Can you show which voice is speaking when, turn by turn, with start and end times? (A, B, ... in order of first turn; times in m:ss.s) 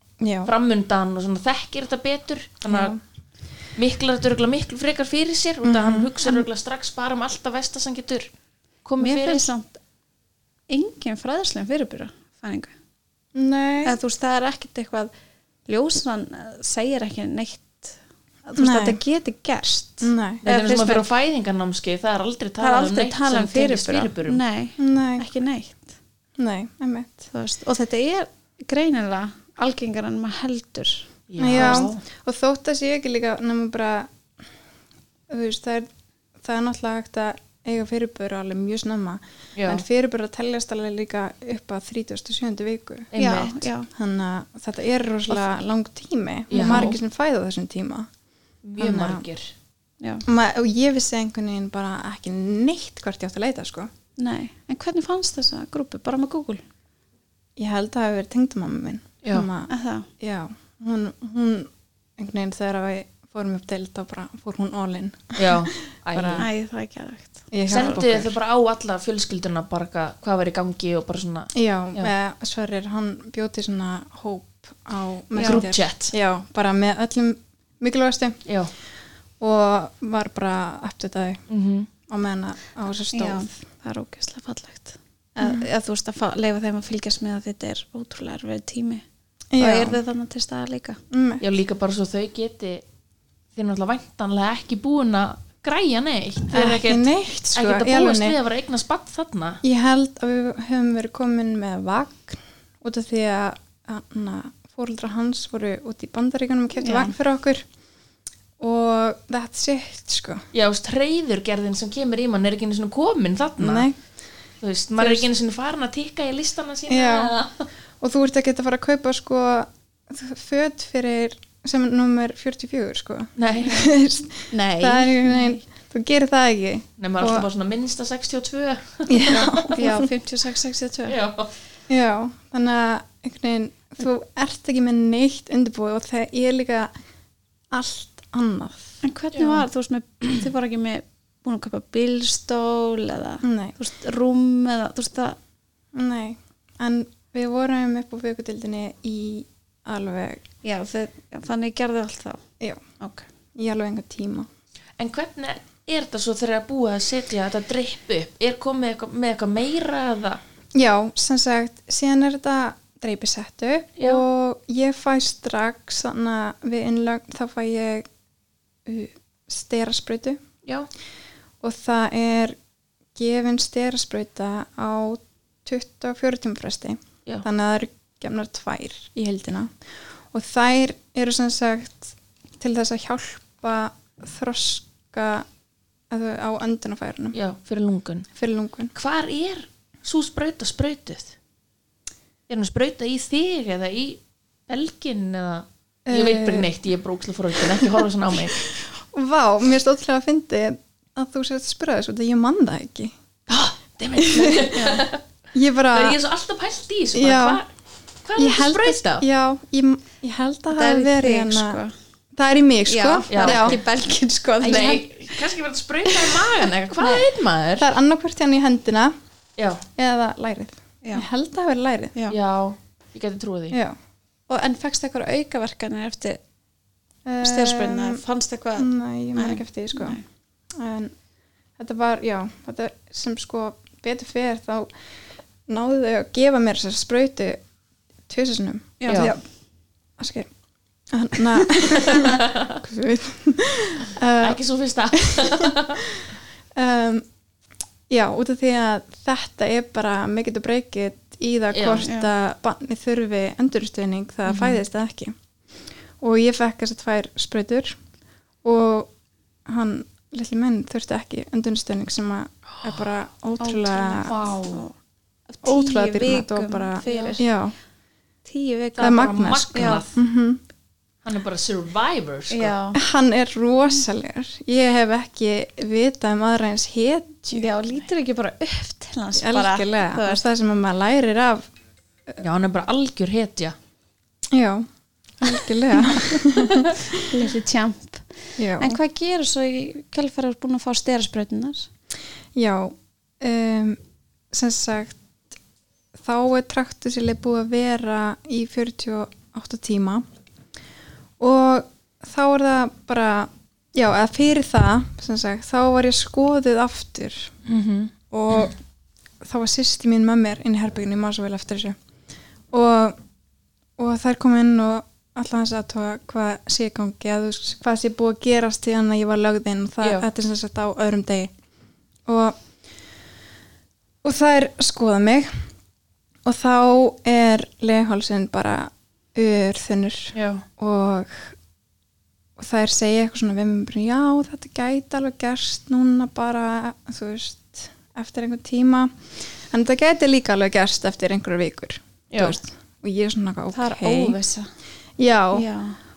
0:00.2-0:00.5 A
0:00.4-0:02.9 B
0:02.6-0:03.0 A
0:03.8-0:08.3 B
0:05.6-0:06.4 A
0:08.8-0:09.5 B
0:09.0-0:09.8 C
0:10.7-0:12.7 C
0:13.3-0:14.0 A
0:13.8-0:15.1 C
0:15.6-0:21.1 C
0:18.6-0:19.0 A
0:20.0-0:20.4 A
0:20.4-0:24.4 B
0:22.6-0:25.9 C
0:24.8-0:25.3 A
0:26.4-0:27.3 A
0:27.3-0:31.9 C
0:31.3-0:32.0 B
0:31.4-0:34.1 A
0:35.3-0:35.9 A
0:36.4-0:43.1 A
0:39.6-0:39.8 B
0:43.1-0:43.7 B
0:43.2-0:43.9 C
0:43.9-0:48.1 A
0:46.5-0:47.0 B
0:46.6-0:46.9 C
0:48.6-0:49.5 B
0:48.8-0:49.2 A
0:50.2-0:53.9 A
0:54.2-0:56.6 C
0:57.6-1:06.4 A
0:59.2-0:59.5 B
0:59.7-1:00.1 C
1:05.4-1:06.5 B
1:06.4-1:08.0 C
1:07.5-1:08.3 A
1:07.7-1:12.1 B
1:11.5-1:18.4 A
1:15.4-1:15.6 C
1:15.4-1:16.1 B
1:18.4-1:18.7 B
1:19.4-1:21.4 A
1:21.5-1:21.9 B
1:22.1-1:23.5 A
1:23.1-1:29.0 C
1:25.4-1:25.7 A
1:29.5-1:30.0 A
1:29.6-1:31.0 C
1:31.1-1:31.4 A
1:31.4-1:32.8 B
1:33.5-1:39.6 B
1:36.5-1:38.4 A
1:39.6-1:47.6 A
1:46.8-1:47.1 C
1:48.6-1:50.4 A
1:50.5-1:53.9 B
1:53.6-1:54.0 A
1:54.6-1:57.7 B
1:55.0-1:55.3 A
1:56.9-1:57.3 A
1:58.0-2:07.5 A
2:03.4-2:03.9 B
2:04.5-2:05.6 C
2:07.0-2:09.8 B
2:09.1-2:10.1 A
2:09.3-2:11.2 C
2:11.1-2:11.5 B
2:11.9-2:16.9 A
2:17.7-2:19.0 A
2:19.0-2:25.4 C
2:19.3-2:19.6 B
2:23.4-2:23.8 A
2:25.9-2:30.4 A
2:30.6-2:32.4 C
2:33.0-2:33.2 C
2:33.6-2:34.5 A
2:35.0-2:40.4 B
2:40.7-2:48.0 A
2:44.0-2:44.2 B
2:48.8-2:50.4 A
2:51.6-2:52.6 A
2:53.1-2:59.7 A
3:00.3-3:05.4 A
3:06.1-3:07.4 A
3:07.3-3:08.3 B
3:08.3-3:08.9 A
3:08.9-3:11.3 B
3:12.5-3:18.7 B
3:16.1-3:16.7 A
3:17.6-3:23.1 A
3:23.5-3:25.2 B
3:24.1-3:24.8 A
3:24.7-3:25.1 C
3:25.5-3:26.2 A
3:25.9-3:27.7 B
3:27.1-3:27.6 A
3:28.2-3:29.2 B
3:28.4-3:31.8 A
3:30.7-3:31.9 C
3:32.3-3:33.8 A
3:32.8-3:35.0 C
3:33.3-3:33.8 B
3:34.6-3:35.0 A
3:34.6-3:37.9 B
3:37.8-3:39.1 A
3:39.6-3:39.8 B
3:40.0-3:42.1 A
3:42.3-3:43.8 B
3:43.7-3:44.0 A
3:44.5-3:46.4 C
3:47.2-3:48.2 A
3:47.4-3:50.2 C
3:48.8-3:50.2 A
3:50.7-3:51.1 A
3:51.8-3:54.9 A
3:55.7-3:57.6 A
3:58.3-3:59.4 A
3:59.0-3:59.3 C
4:00.2-4:00.5 A
4:01.1-4:04.6 A
4:02.0-4:02.8 B
4:04.4-4:06.2 B
4:05.1-4:07.2 A
4:08.1-4:15.3 A
4:11.7-4:12.1 B
4:12.0-4:12.3 C
4:14.4-4:14.8 B
4:16.2-4:18.0 A
4:18.6-4:19.1 A
4:19.7-4:24.3 A
4:23.6-4:24.9 C
4:24.3-4:24.8 B
4:25.5-4:27.4 C
4:25.6-4:27.8 A
4:27.0-4:27.4 B
4:28.4-4:30.0 C
4:29.0-4:30.1 B
4:29.0-4:30.6 A
4:31.2-4:32.8 B
4:32.5-4:33.0 C
4:32.9-4:37.7 A
4:37.5-4:40.4 C
4:39.4-4:41.6 A
4:42.4-4:43.7 B
4:44.5-4:44.9 A
4:45.4-4:47.2 A
4:45.9-4:46.2 C
4:47.1-4:51.9 C
4:48.6-4:49.0 A
4:52.5-4:54.0 A
4:54.5-4:55.2 A
4:56.2-5:00.2 A
5:01.4-5:07.5 A
5:07.6-5:08.1 B
5:08.3-5:08.7 A
5:09.4-5:12.0 A
5:12.7-5:13.2 A
5:14.0-5:21.5 A
5:22.3-5:22.6 A
5:24.2-5:25.6 A
5:26.4-5:31.5 A
5:30.3-5:30.6 B
5:32.6-5:44.4 A
5:42.3-5:42.6 B
5:43.7-5:44.7 C
5:45.2-5:45.7 A
5:45.5-5:46.0 C